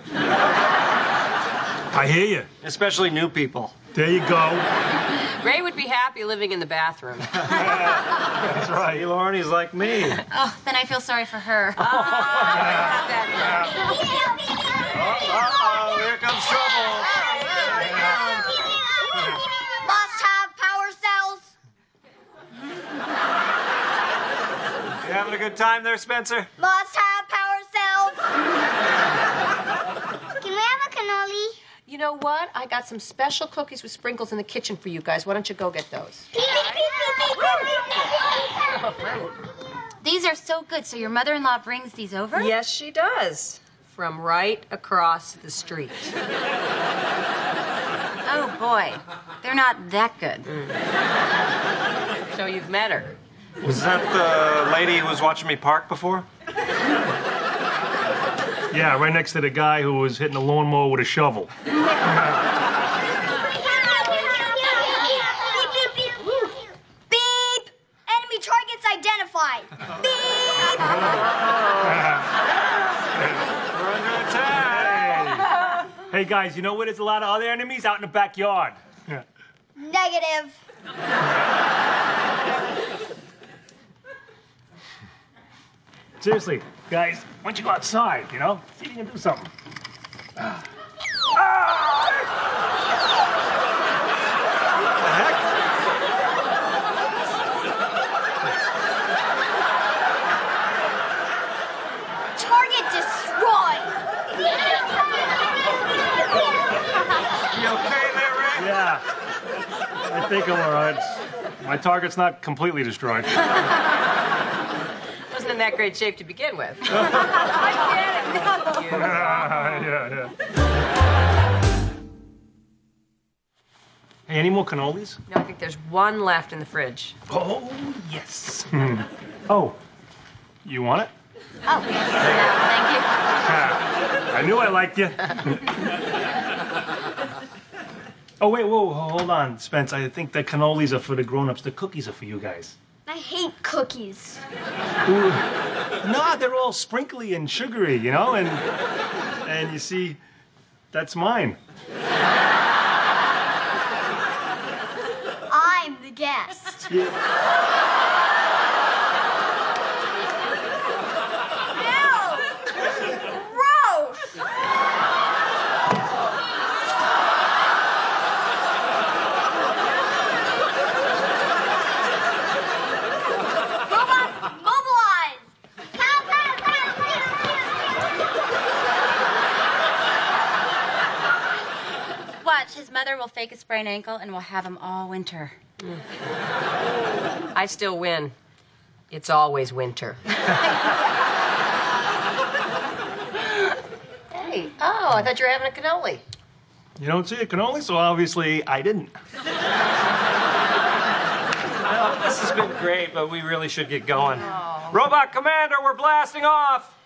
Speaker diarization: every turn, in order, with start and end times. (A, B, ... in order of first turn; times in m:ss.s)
0:01.9-0:02.5 A
0:02.6-0:03.7 B
0:03.9-0:04.7 A
0:05.4-0:07.4 C
0:07.5-0:09.0 A
0:08.8-0:10.2 B
0:10.3-0:13.5 D
0:11.9-0:13.6 C
0:12.3-0:12.9 A
0:13.8-0:14.2 E
0:14.9-0:17.6 B
0:15.5-0:16.0 E
0:17.2-0:21.5 E
0:25.0-0:26.5 B
0:26.6-0:28.3 E
0:30.4-0:31.5 E
0:31.8-0:37.6 C
0:36.3-0:38.6 E
0:38.8-0:39.3 C
0:40.0-0:42.5 D
0:42.3-0:46.1 C
0:48.2-0:50.6 D
0:50.5-0:50.7 C
0:52.3-0:53.2 C
0:53.6-0:56.3 B
0:58.7-1:01.5 A
1:03.6-1:11.3 E
1:10.7-1:11.3 A
1:11.2-1:12.2 B
1:11.8-1:12.3 A
1:13.2-1:13.5 A
1:13.7-1:15.3 B
1:14.6-1:19.2 A
1:19.8-1:20.6 E
1:26.2-1:29.5 A
1:30.4-1:30.6 A
1:31.3-1:32.3 A
1:35.0-1:35.5 A
1:42.4-1:43.9 E
1:47.4-1:48.8 B
1:48.6-1:49.0 A
1:50.1-1:53.5 A
1:55.3-1:59.6 C
1:57.4-1:57.7 D
1:58.4-1:58.8 D
1:58.9-2:00.3 A
2:04.3-2:05.2 A
2:05.3-2:07.2 C
2:07.3-2:09.8 A
2:10.6-2:11.1 A
2:11.6-2:13.1 D
2:13.4-2:15.8 A
2:18.4-2:22.7 A
2:23.0-2:24.4 E
2:25.0-2:25.4 A
2:26.0-2:28.6 A
2:29.4-2:30.2 A
2:30.9-2:31.6 A
2:35.5-2:36.9 E
2:36.9-2:37.1 A
2:41.7-2:42.6 E
2:43.1-2:44.3 E
2:53.8-2:57.6 E
3:02.4-3:05.5 D
3:07.5-3:08.3 C
3:09.1-3:10.5 C
3:14.3-3:16.2 C
3:17.0-3:19.2 A
3:21.8-3:26.9 B
3:24.6-3:24.9 D